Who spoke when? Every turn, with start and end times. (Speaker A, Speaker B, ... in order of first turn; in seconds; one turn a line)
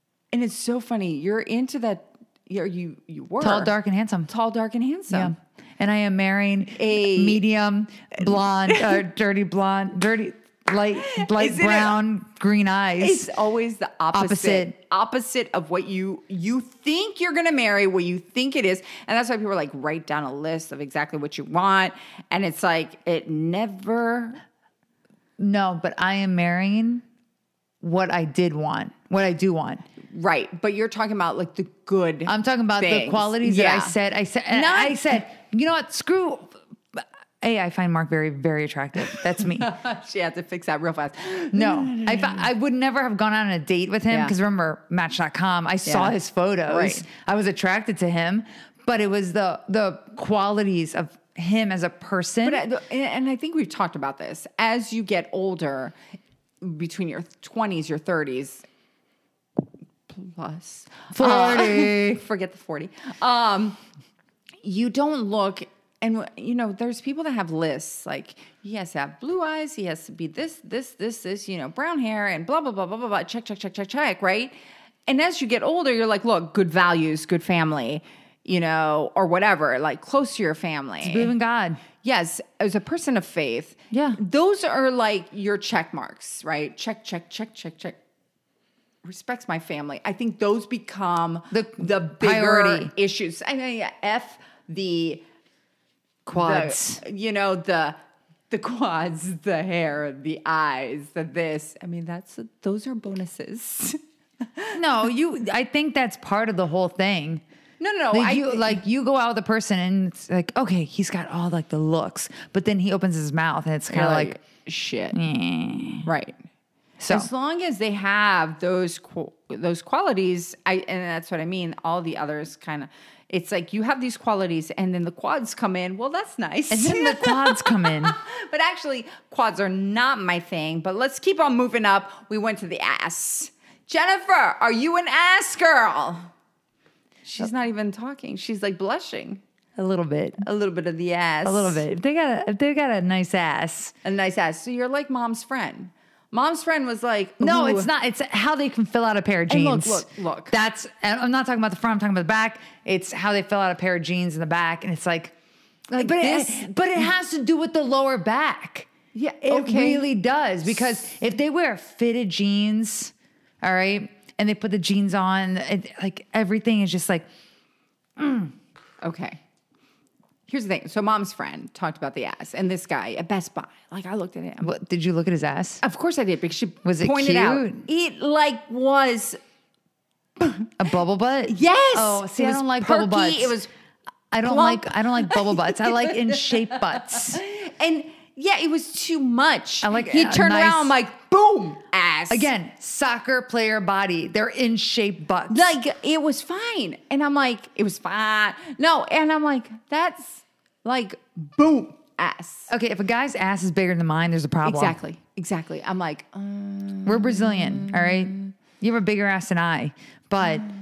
Speaker A: 0.3-3.7
Speaker B: 3.4-4.3
Speaker A: 4.3-5.3
Speaker B: 5.1-13.3
Speaker A: 6.7-7.4
Speaker A: 8.2-9.0
Speaker A: 10.9-12.0
Speaker A: 13.0-24.4
Speaker B: 14.1-14.7
Speaker B: 25.4-27.0
Speaker B: 27.8-29.8
Speaker A: 30.0-34.0
Speaker B: 32.3-39.7
Speaker A: 34.5-35.1
Speaker A: 39.0-42.5
Speaker B: 41.5-52.6
Speaker A: 44.1-44.3
Speaker A: 45.8-46.1
Speaker A: 46.7-47.0
Speaker A: 52.4-55.9
Speaker A: 56.6-58.6
Speaker A: 60.1-63.8
Speaker B: 61.1-62.2
Speaker A: 64.6-74.5
Speaker A: 75.1-81.3
Speaker B: 81.0-81.8
Speaker A: 82.0-88.0
Speaker B: 83.9-84.2
Speaker A: 89.0-95.2
Speaker B: 91.5-92.9
Speaker B: 96.2-97.0
Speaker A: 96.3-98.0
Speaker A: 98.5-104.0
Speaker A: 104.5-104.8
Speaker B: 104.7-107.4
Speaker A: 107.8-108.8
Speaker B: 108.1-114.3
Speaker A: 113.9-115.2
Speaker B: 115.1-116.1
Speaker A: 116.0-116.4
Speaker B: 117.0-117.3
Speaker A: 117.1-136.3
Speaker B: 126.7-128.2
Speaker A: 137.2-139.4
Speaker B: 139.8-140.4
Speaker A: 140.4-141.8
Speaker B: 141.4-143.9
Speaker A: 144.0-147.9
Speaker B: 147.4-155.3
Speaker A: 149.5-150.5
Speaker A: 155.9-157.1
Speaker B: 156.0-158.9
Speaker A: 159.1-160.1
Speaker B: 159.4-167.3
Speaker B: 168.2-168.5
Speaker A: 169.0-169.4
Speaker A: 170.5-174.7
Speaker B: 174.6-175.8
Speaker A: 175.8-179.4
Speaker B: 176.8-177.8
Speaker A: 180.4-180.7
Speaker B: 180.8-183.6
Speaker A: 181.5-183.7
Speaker B: 184.3-187.4
Speaker A: 184.4-192.5
Speaker B: 189.8-190.9
Speaker B: 192.3-195.7
Speaker A: 195.5-202.7
Speaker B: 202.7-205.0
Speaker A: 204.6-208.5
Speaker B: 207.1-210.7